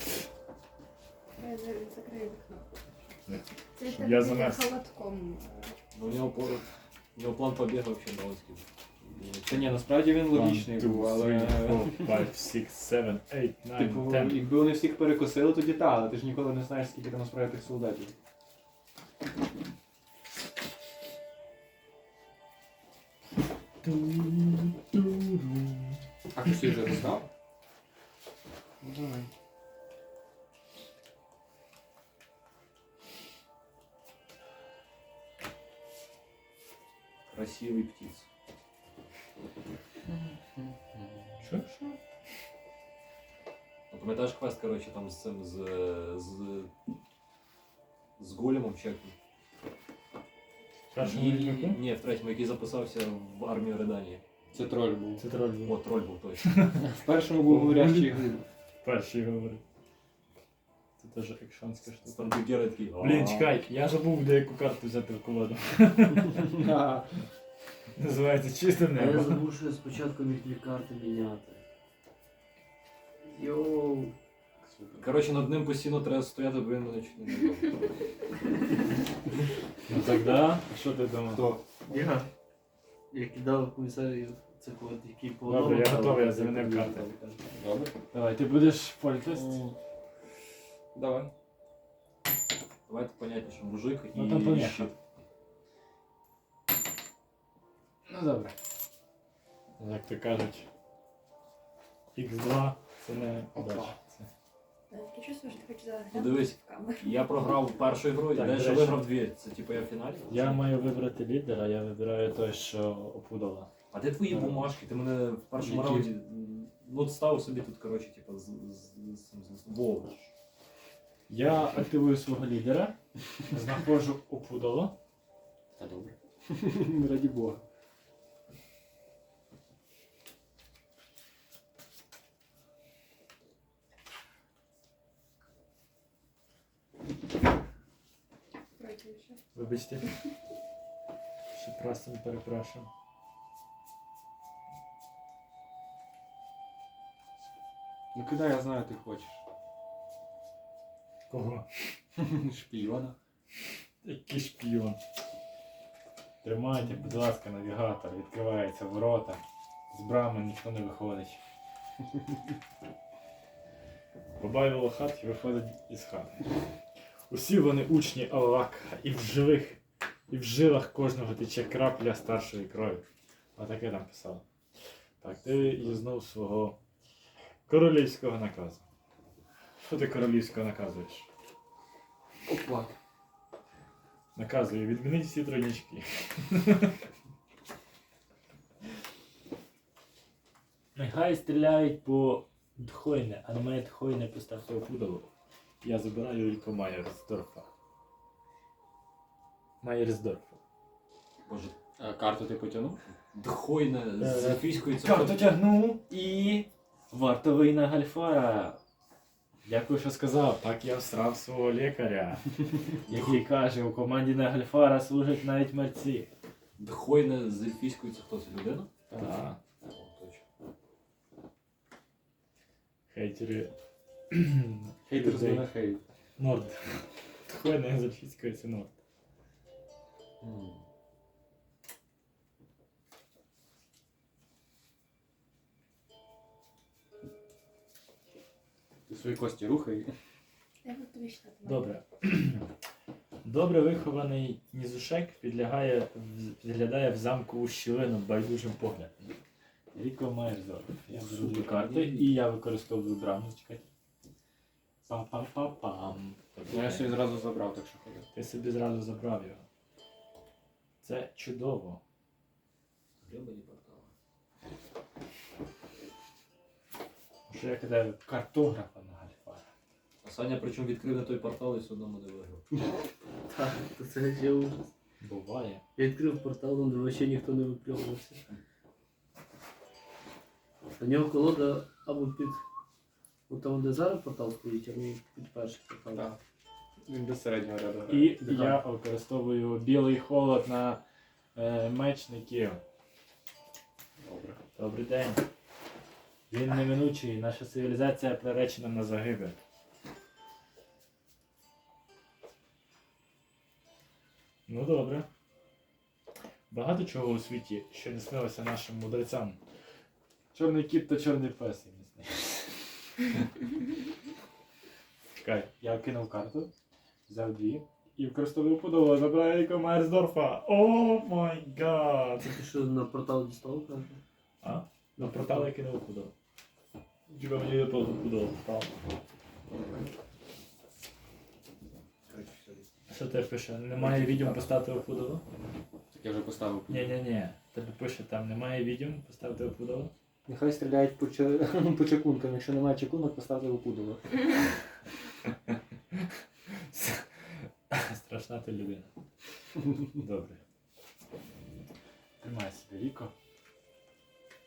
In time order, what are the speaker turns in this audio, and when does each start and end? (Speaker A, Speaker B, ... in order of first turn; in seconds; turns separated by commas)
Speaker A: 1.4-2.6, Speaker B: 3.3-4.7, Speaker A: 3.7-5.7, Speaker C: 5.9-9.7, Speaker D: 9.4-12.3, Speaker B: 10.2-14.4, Speaker D: 13.8-18.1, Speaker B: 23.8-26.0, Speaker D: 26.3-27.3, Speaker D: 28.8-29.3, Speaker C: 37.3-38.3, Speaker D: 40.1-41.4, Speaker B: 41.4-42.0, Speaker C: 43.9-46.7, Speaker C: 48.2-49.1, Speaker B: 50.9-51.8, Speaker C: 51.0-54.2, Speaker D: 54.5-55.2, Speaker B: 55.2-55.8, Speaker C: 55.6-56.5, Speaker B: 56.4-56.8, Speaker D: 56.7-58.4, Speaker B: 57.5-58.1, Speaker B: 58.8-59.6, Speaker B: 61.0-62.4, Speaker C: 62.0-63.5, Speaker B: 63.0-66.6, Speaker D: 66.5-67.2, Speaker B: 68.0-69.5, Speaker E: 68.9-71.6, Speaker E: 73.2-74.1, Speaker D: 74.6-75.1, Speaker C: 75.0-77.8, Speaker B: 79.9-81.5, Speaker D: 81.3-81.6, Speaker E: 81.9-82.3, Speaker E: 83.1-87.5, Speaker B: 85.5-87.0, Speaker D: 87.5-87.9, Speaker B: 88.1-89.6, Speaker D: 89.3-89.8, Speaker D: 90.9-91.3, Speaker C: 92.9-95.0, Speaker B: 94.1-94.9, Speaker B: 98.0-98.5, Speaker B: 99.8-100.7, Speaker B: 102.1-104.3, Speaker D: 103.5-104.0, Speaker A: 104.9-107.2, Speaker C: 106.1-110.7, Speaker B: 108.3-109.1, Speaker B: 110.3-113.7, Speaker C: 113.9-120.3, Speaker D: 115.6-116.1, Speaker B: 121.3-123.0, Speaker B: 123.5-125.0, Speaker D: 125.8-127.6, Speaker A: 138.7-139.4, Speaker B: 139.5-140.1, Speaker B: 141.5-142.9, Speaker D: 148.1-149.4, Speaker B: 151.3-151.8, Speaker D: 152.2-153.2, Speaker B: 154.0-155.0, Speaker B: 156.4-161.4, Speaker B: 164.4-166.5, Speaker B: 167.3-173.0, Speaker B: 173.6-174.4, Speaker B: 175.2-176.8, Speaker B: 177.7-178.8, Speaker B: 179.8-181.3, Speaker D: 182.4-182.9, Speaker B: 184.3-187.0, Speaker B: 190.9-195.3, Speaker B: 195.8-197.7, Speaker B: 199.8-200.6, Speaker C: 201.4-201.8, Speaker D: 202.0-203.0, Speaker C: 203.3-205.6, Speaker B: 204.2-208.8, Speaker B: 209.6-216.3, Speaker C: 216.8-218.9, Speaker D: 219.1-219.4, Speaker B: 219.2-219.6, Speaker C: 219.8-220.4, Speaker B: 223.1-223.7, Speaker B: 224.3-225.7, Speaker D: 225.1-226.0, Speaker B: 226.4-229.0, Speaker D: 230.4-230.8, Speaker C: 230.4-230.7, Speaker D: 239.1-240.1, Speaker A: 240.8-241.9, Speaker B: 241.6-242.7, Speaker B: 243.4-249.3, Speaker B: 249.9-253.9, Speaker C: 251.1-252.4, Speaker B: 255.1-257.2, Speaker D: 256.7-258.3, Speaker B: 258.3-259.6, Speaker B: 261.0-262.0, Speaker C: 263.2-264.1, Speaker B: 267.5-269.6, Speaker C: 270.2-272.7, Speaker E: 273.4-274.9, Speaker B: 275.2-275.8, Speaker E: 276.0-278.4, Speaker E: 281.0-282.6, Speaker E: 283.5-286.4, Speaker D: 287.0-288.4, Speaker B: 288.1-291.0, Speaker E: 288.4-288.8, Speaker B: 291.5-292.8, Speaker D: 294.2-294.6, Speaker B: 294.7-295.4, Speaker B: 296.5-299.6, Speaker B: 304.7-305.3, Speaker B: 306.7-309.6, Speaker B: 310.5-313.4, Speaker B: 315.4-316.7, Speaker B: 317.3-322.6, Speaker E: 322.4-324.2, Speaker B: 324.6-326.3, Speaker E: 325.2-325.7, Speaker B: 327.3-328.9, Speaker C: 332.3-332.9, Speaker B: 333.1-335.4, Speaker D: 333.9-334.7, Speaker D: 336.1-337.2, Speaker B: 336.9-340.1, Speaker D: 340.4-344.3, Speaker B: 346.1-349.1, Speaker B: 350.1-350.6, Speaker B: 352.4-353.3